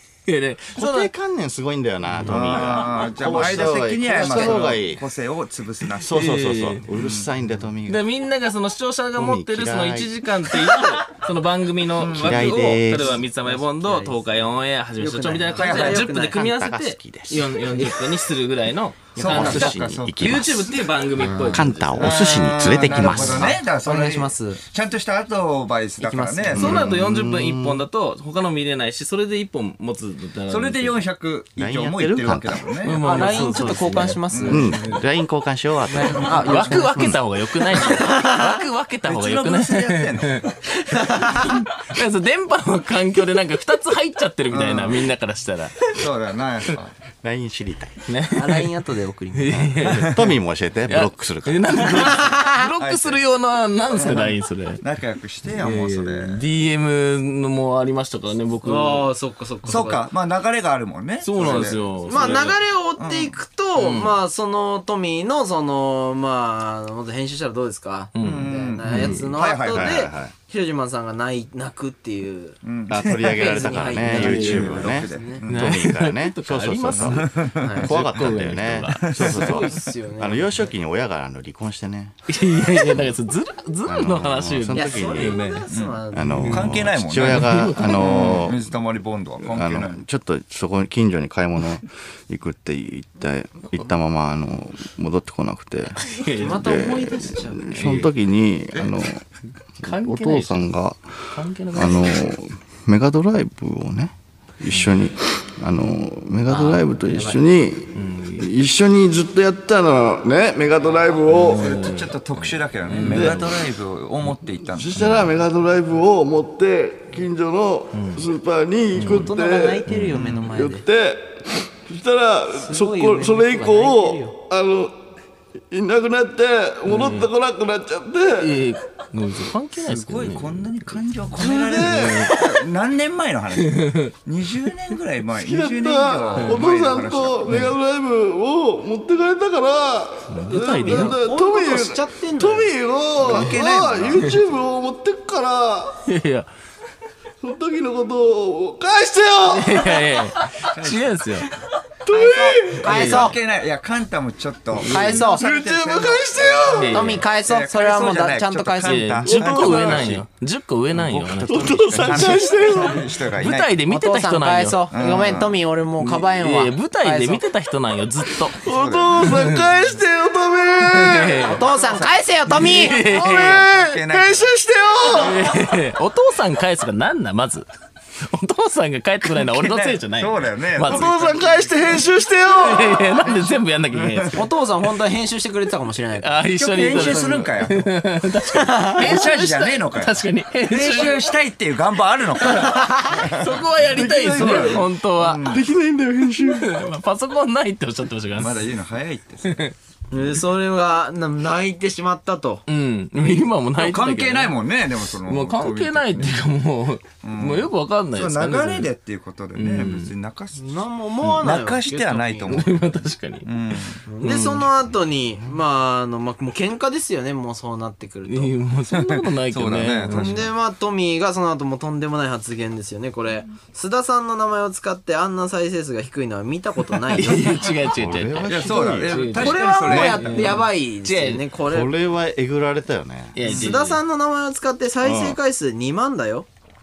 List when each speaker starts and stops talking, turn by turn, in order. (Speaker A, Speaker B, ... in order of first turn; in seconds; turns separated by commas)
Speaker A: 0.3-1.1, Speaker B: 0.8-5.0, Speaker C: 2.2-6.3, Speaker B: 6.0-8.1, Speaker A: 6.1-6.8, Speaker C: 6.9-7.3, Speaker A: 7.8-23.4, Speaker B: 9.2-10.1, Speaker C: 12.0-12.6, Speaker B: 12.0-13.2, Speaker D: 13.1-14.4, Speaker D: 15.0-16.5, Speaker C: 15.5-16.1, Speaker B: 16.2-17.7, Speaker C: 19.1-20.4, Speaker B: 19.1-20.8, Speaker D: 21.2-21.6, Speaker B: 21.4-23.6, Speaker C: 21.9-26.8, Speaker D: 22.9-24.6, Speaker D: 26.0-26.7, Speaker B: 26.5-27.8, Speaker A: 26.6-31.0, Speaker C: 30.5-33.4, Speaker B: 31.6-32.7, Speaker A: 32.8-35.0, Speaker D: 33.0-34.9, Speaker C: 34.3-34.7, Speaker B: 34.5-37.2, Speaker D: 35.9-37.1, Speaker A: 36.3-40.5, Speaker D: 37.7-38.5, Speaker C: 39.0-40.5, Speaker D: 40.9-41.4, Speaker A: 41.3-45.9, Speaker C: 44.5-45.0, Speaker C: 45.9-46.9, Speaker B: 47.2-48.0, Speaker A: 48.1-48.7, Speaker D: 48.3-50.0, Speaker A: 49.3-50.2, Speaker B: 50.0-52.2, Speaker A: 50.9-54.8, Speaker D: 52.2-52.5, Speaker C: 52.8-53.2, Speaker C: 54.0-56.4, Speaker A: 55.6-59.1, Speaker D: 58.6-60.0, Speaker C: 59.6-63.4, Speaker A: 61.2-62.6, Speaker D: 61.4-75.4, Speaker A: 63.8-64.1, Speaker A: 68.1-69.2, Speaker C: 68.2-70.0, Speaker B: 69.0-70.3, Speaker C: 72.6-75.6, Speaker B: 72.9-82.1, Speaker A: 74.1-74.7, Speaker A: 75.5-79.2, Speaker C: 77.0-77.8, Speaker D: 77.6-77.9, Speaker C: 79.0-79.7, Speaker D: 79.2-80.7, Speaker A: 82.3-85.6, Speaker B: 83.8-85.4, Speaker D: 84.7-86.7, Speaker C: 85.7-90.0, Speaker B: 86.1-88.7, Speaker A: 86.3-88.4, Speaker B: 89.4-96.0, Speaker A: 96.0-96.8, Speaker D: 96.3-97.8, Speaker B: 96.5-99.2, Speaker A: 97.7-98.1, Speaker A: 99.8-100.7, Speaker B: 99.8-101.0, Speaker A: 101.3-102.2, Speaker B: 101.7-111.7, Speaker D: 106.5-107.3, Speaker A: 107.9-108.5, Speaker A: 111.3-113.5, Speaker C: 111.5-115.1, Speaker B: 113.0-113.5, Speaker B: 114.7-125.0, Speaker A: 115.0-115.3, Speaker A: 117.9-118.2, Speaker A: 118.9-119.3, Speaker D: 119.0-120.8, Speaker D: 122.5-124.3, Speaker B: 125.7-128.6, Speaker A: 126.8-127.3, Speaker A: 128.4-130.9, Speaker C: 129.8-137.7, Speaker B: 131.4-132.3, Speaker A: 131.7-132.5, Speaker A: 133.7-134.1, Speaker B: 135.3-146.0, Speaker A: 140.3-141.1, Speaker D: 140.5-142.7, Speaker C: 143.2-144.5, Speaker A: 146.0-146.5, Speaker B: 147.4-150.7, Speaker A: 149.4-151.5, Speaker C: 150.6-151.2, Speaker B: 152.0-153.1, Speaker D: 152.1-153.4, Speaker C: 152.8-160.2, Speaker A: 152.8-153.3, Speaker D: 154.8-155.4, Speaker A: 154.8-155.2, Speaker B: 155.3-157.0, Speaker A: 156.7-157.2, Speaker D: 156.8-159.1, Speaker A: 158.8-164.9, Speaker B: 159.2-160.2, Speaker C: 160.9-163.8, Speaker B: 161.2-163.1, Speaker D: 163.9-167.4, Speaker C: 164.9-165.6, Speaker A: 166.0-168.6, Speaker B: 168.5-171.5, Speaker C: 168.6-169.3, Speaker A: 169.2-169.7, Speaker A: 170.8-171.6, Speaker D: 171.4-173.7, Speaker C: 171.5-174.5, Speaker A: 172.5-173.6, Speaker B: 173.1-175.5, Speaker A: 175.1-177.7, Speaker A: 178.2-181.3, Speaker C: 179.3-181.8, Speaker B: 180.8-183.3, Speaker A: 182.4-184.4, Speaker C: 184.0-184.3, Speaker D: 184.3-187.4, Speaker A: 186.2-191.2, Speaker C: 186.5-187.9, Speaker D: 188.6-189.0, Speaker C: 188.9-195.7, Speaker A: 192.4-195.6, Speaker D: 192.6-193.2, Speaker B: 193.9-194.9, Speaker B: 195.4-196.8, Speaker A: 196.4-198.6, Speaker C: 198.4-199.6, Speaker A: 199.4-199.7, Speaker D: 200.1-202.6, Speaker A: 202.7-204.6, Speaker C: 203.8-206.4, Speaker A: 205.2-208.9, Speaker C: 207.2-214.0, Speaker A: 209.5-210.1, Speaker D: 210.6-212.7, Speaker A: 212.5-213.5, Speaker D: 214.1-218.5, Speaker A: 214.2-214.7, Speaker A: 218.3-220.4, Speaker C: 218.9-220.5, Speaker D: 220.1-227.7, Speaker A: 227.1-231.4, Speaker B: 227.8-230.5, Speaker C: 228.4-230.6, Speaker D: 229.3-231.9, Speaker B: 231.6-233.4, Speaker A: 233.3-234.0, Speaker D: 233.4-236.5, Speaker B: 235.0-235.4